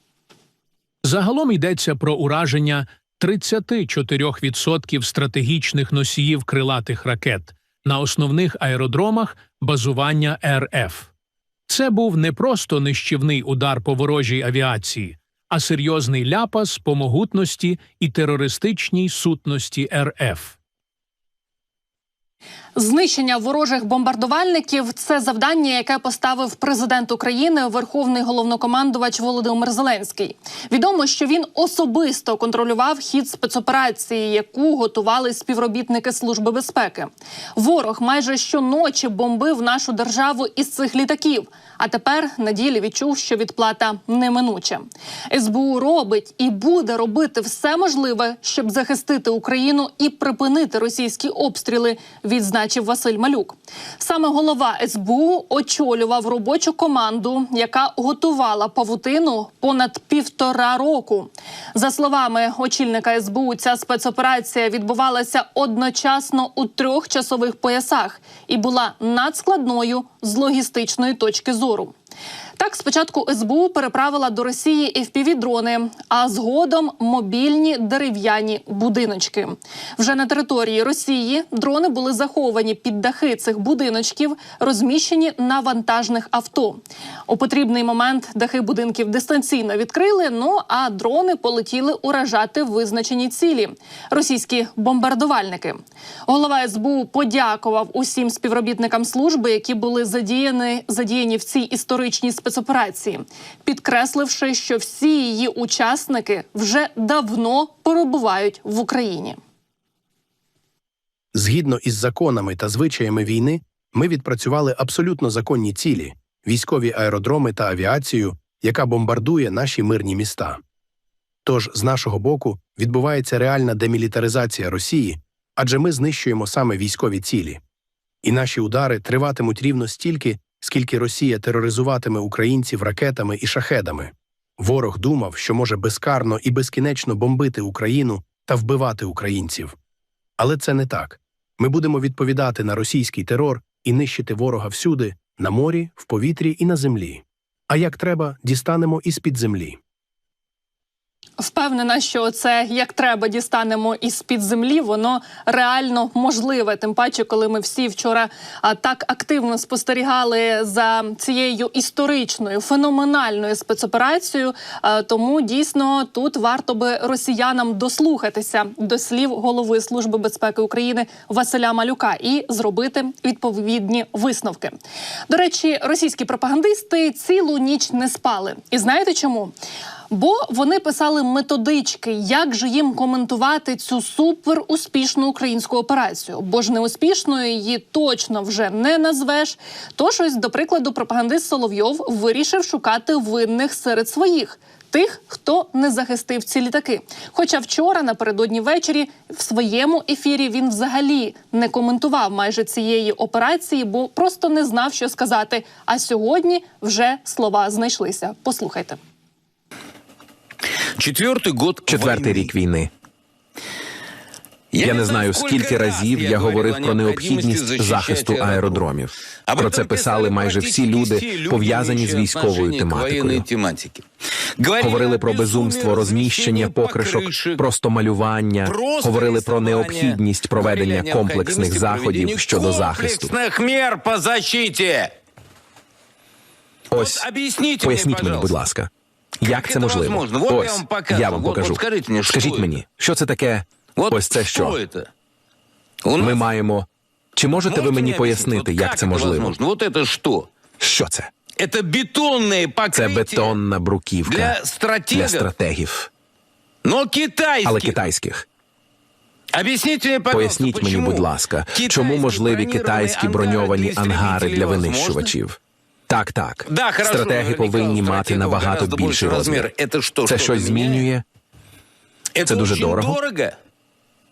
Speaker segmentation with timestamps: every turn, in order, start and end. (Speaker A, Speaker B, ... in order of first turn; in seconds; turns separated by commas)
Speaker A: 1.0-11.1, Speaker A: 11.7-20.6, Speaker B: 22.8-71.9, Speaker B: 72.6-109.4, Speaker C: 111.3-120.6, Speaker C: 121.5-127.6, Speaker C: 128.2-139.8, Speaker C: 140.4-149.8, Speaker B: 151.4-174.8, Speaker B: 175.3-179.5, Speaker B: 180.1-209.0, Speaker D: 211.0-212.5, Speaker E: 211.9-212.9, Speaker D: 214.7-218.9, Speaker E: 214.8-223.4, Speaker D: 219.5-224.1, Speaker D: 224.6-227.6, Speaker E: 224.8-233.3, Speaker D: 228.6-235.1, Speaker E: 236.9-237.3, Speaker D: 236.9-238.6, Speaker E: 237.8-238.9, Speaker D: 239.4-242.7, Speaker E: 239.4-244.8, Speaker D: 244.0-245.1, Speaker D: 246.0-246.4, Speaker E: 246.2-249.6, Speaker D: 247.6-250.5, Speaker E: 250.8-251.3, Speaker D: 251.6-253.6, Speaker E: 252.9-254.6, Speaker D: 254.3-255.5, Speaker E: 255.1-256.1, Speaker D: 256.8-258.0, Speaker E: 257.6-258.4, Speaker D: 259.5-265.3, Speaker E: 260.3-269.7, Speaker D: 266.7-271.1, Speaker E: 270.2-271.2, Speaker D: 272.4-273.6, Speaker E: 272.4-273.2